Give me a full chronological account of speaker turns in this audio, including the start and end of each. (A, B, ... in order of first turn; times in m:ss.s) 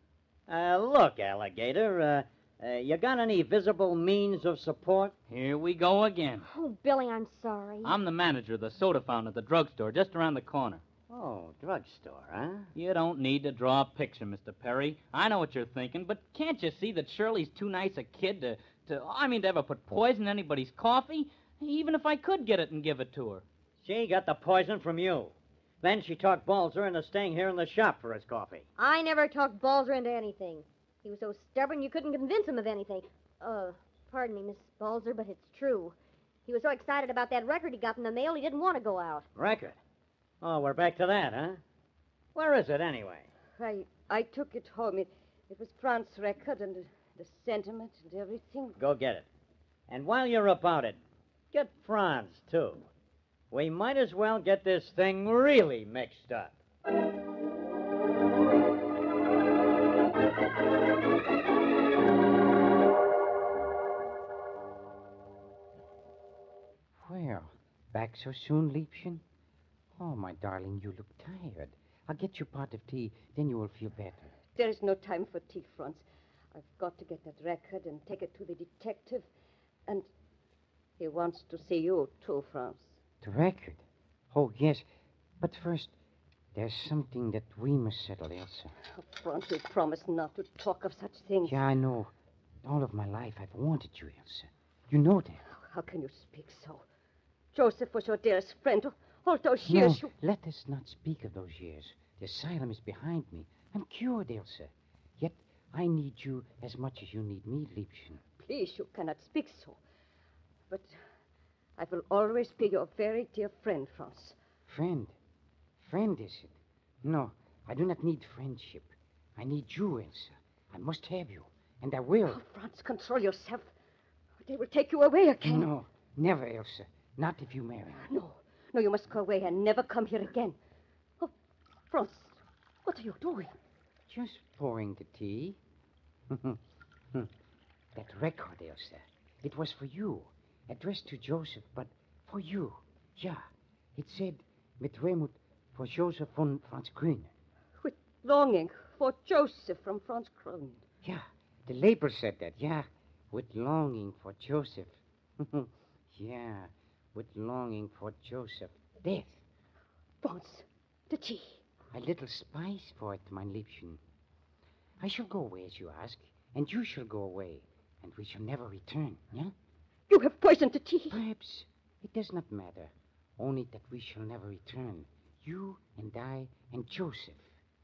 0:00.5-0:05.1 A
0:05.3-0:06.5 B
0:06.5-0:08.0 C
0:07.8-0:10.8 B
0:11.1-0:12.7 A
0:12.8-0:23.4 B
0:23.8-0:28.6 A
0:28.8-0:36.0 C
0:36.5-0:39.2 C
0:39.4-0:39.8 A
0:40.4-0:41.6 A
0:42.4-0:43.3 A
0:43.6-0:48.8 D
0:48.8-0:49.3 A
0:49.9-0:51.0 A
0:51.5-0:52.9 A
0:53.5-0:56.6 A
1:07.0-1:09.2 E
1:10.0-1:14.3 E
1:14.6-1:19.3 D
1:21.0-1:23.0 D
1:23.2-1:24.8 E
1:25.4-1:25.9 E
1:26.5-1:28.7 E
1:28.9-1:31.6 D
1:31.4-1:32.1 E
1:32.6-1:35.4 E
1:35.5-1:36.8 D
1:37.5-1:40.1 D
1:39.7-1:48.2 E
1:48.4-1:49.8 D
1:50.7-1:51.0 D
1:51.8-1:54.4 D
1:54.7-1:55.2 E
1:55.8-2:02.4 E
2:02.3-2:03.7 D
2:04.4-2:05.7 D
2:05.4-2:08.1 E
2:08.0-2:10.6 D
2:11.9-2:13.6 D
2:14.1-2:15.6 E
2:16.3-2:16.6 E
2:18.0-2:27.3 E
2:27.8-2:30.8 D
2:31.0-2:39.4 E
2:40.2-2:41.6 D
2:41.9-2:44.0 E
2:45.0-2:49.5 E
2:50.1-2:51.2 D
2:51.1-2:57.5 E